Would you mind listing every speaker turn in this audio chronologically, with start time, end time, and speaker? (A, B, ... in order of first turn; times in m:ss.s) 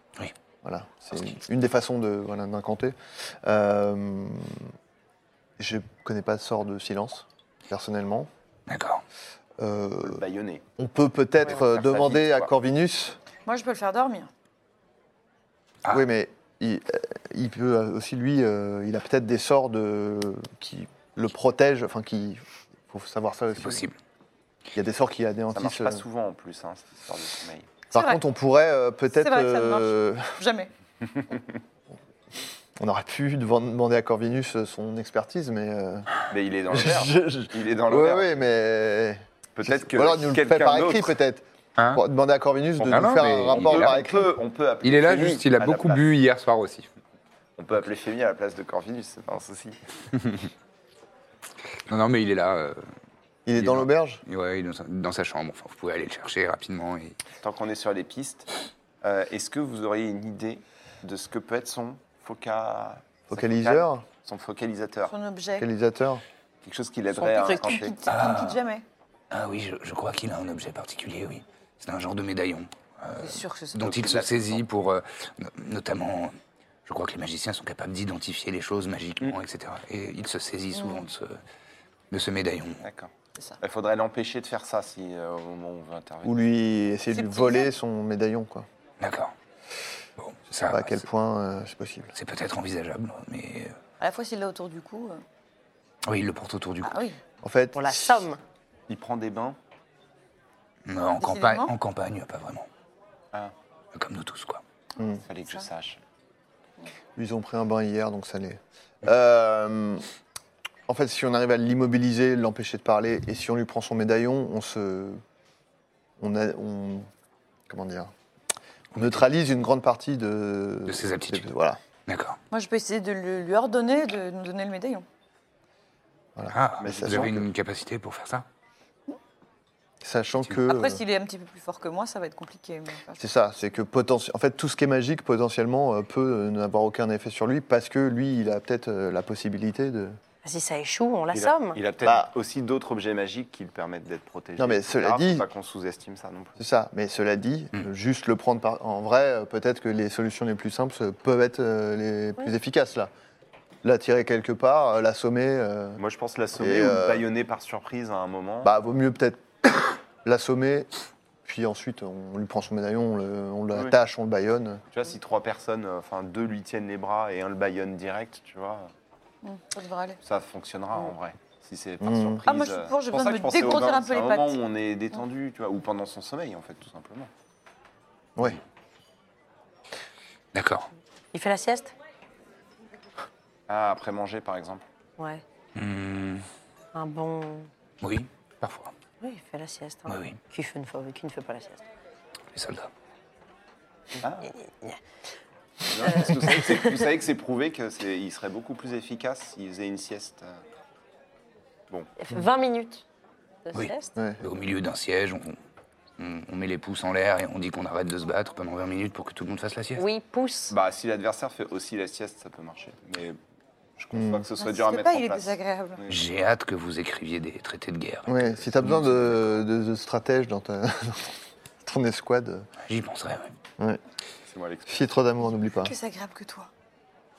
0:00.6-0:04.7 A
0:05.6-0:08.3 A
0:08.7-0:09.0 B
0:09.6-0:10.2 A
0:10.1-0:10.6 C
0:10.8-0:13.2 A
0:11.5-0:12.5 C
0:13.5-0:14.3 D
0:15.9-0:23.9 A
0:23.6-0:24.0 B
0:24.7-0:26.0 A
0:25.5-0:27.8 C
0:27.9-0:30.4 A
0:27.9-0:28.2 D
0:29.2-0:30.7 D
0:32.8-0:36.1 A
0:36.3-0:38.3 C
0:36.7-0:44.3 A
0:39.6-0:41.1 C
0:41.8-0:42.0 B
0:42.8-0:46.1 C
0:42.8-0:44.0 B
0:44.8-0:46.9 B
0:47.6-0:49.8 C
0:51.9-0:52.9 B
0:53.5-0:54.2 A
0:53.6-0:57.2 B
0:57.4-0:58.5 C
0:59.0-1:05.2 C
1:03.3-1:04.0 A
1:05.1-1:05.7 D
1:05.6-1:06.2 A
1:06.6-1:08.0 C
1:07.2-1:07.8 E
1:07.4-1:08.8 D
1:08.1-1:08.6 B
1:09.3-1:21.4 B
1:13.2-1:13.8 D
1:13.8-1:14.6 C
1:20.8-1:21.1 D
1:22.1-1:22.8 B
1:22.8-1:26.4 C
1:26.2-1:28.7 A
1:27.2-1:27.7 D
1:29.0-1:29.3 B
1:30.2-1:31.0 B
1:30.7-1:32.1 A
1:32.1-1:33.8 B
1:34.0-1:35.2 D
1:36.0-1:37.0 B
1:36.8-1:37.2 D
1:37.4-1:38.3 A
1:37.7-1:38.4 E
1:38.9-1:39.6 C
1:40.9-1:42.7 B
1:41.2-1:41.7 D
1:43.9-1:44.6 B
1:45.3-1:46.0 C
1:47.2-1:50.0 A
1:50.9-1:55.2 A
1:56.2-1:57.1 A
1:57.7-1:58.1 A
1:58.9-1:59.2 B
1:59.0-2:01.8 A
2:00.9-2:01.5 B
2:02.1-2:02.4 B
2:02.5-2:05.0 D
2:06.4-2:07.3 A
2:06.5-2:08.5 B
2:06.8-2:07.5 C
2:10.0-2:11.0 A
2:10.6-2:13.2 D
2:13.2-2:20.2 A
2:20.4-2:21.8 E
2:21.3-2:26.6 C
2:22.0-2:22.3 A
2:24.6-2:25.5 A
2:26.6-2:33.1 A
2:33.8-2:36.0 A
2:36.0-2:38.7 C
2:36.6-2:37.3 A
2:38.6-2:40.9 A
2:41.4-2:44.8 A
2:44.9-2:48.9 C
2:49.4-2:50.2 D
2:50.2-2:57.3 C
2:52.0-2:52.4 A
2:52.5-2:54.6 D
3:00.5-3:00.9 B
3:01.3-3:01.9 E
3:03.7-3:04.9 C
3:05.2-3:05.4 E
3:05.8-3:06.5 B
3:06.9-3:07.7 E
3:08.0-3:08.9 B
3:09.2-3:11.9 E
3:10.1-3:10.4 B
3:12.5-3:12.9 B
3:14.2-3:14.5 C
3:14.5-3:15.0 E
3:15.8-3:20.6 C
3:16.1-3:16.5 E
3:22.2-3:23.0 E
3:23.7-3:24.1 E
3:23.7-3:25.6 B
3:24.2-3:24.4 A
3:26.2-3:30.0 B
3:30.0-3:30.8 E
3:30.7-3:33.4 C
3:34.0-3:36.2 C
3:34.1-3:34.5 A
3:34.6-3:36.0 D
3:36.1-3:39.4 B
3:38.3-3:42.7 A
3:42.8-3:43.6 B
3:44.5-3:45.2 C
3:44.9-3:45.9 A
3:45.7-3:46.7 D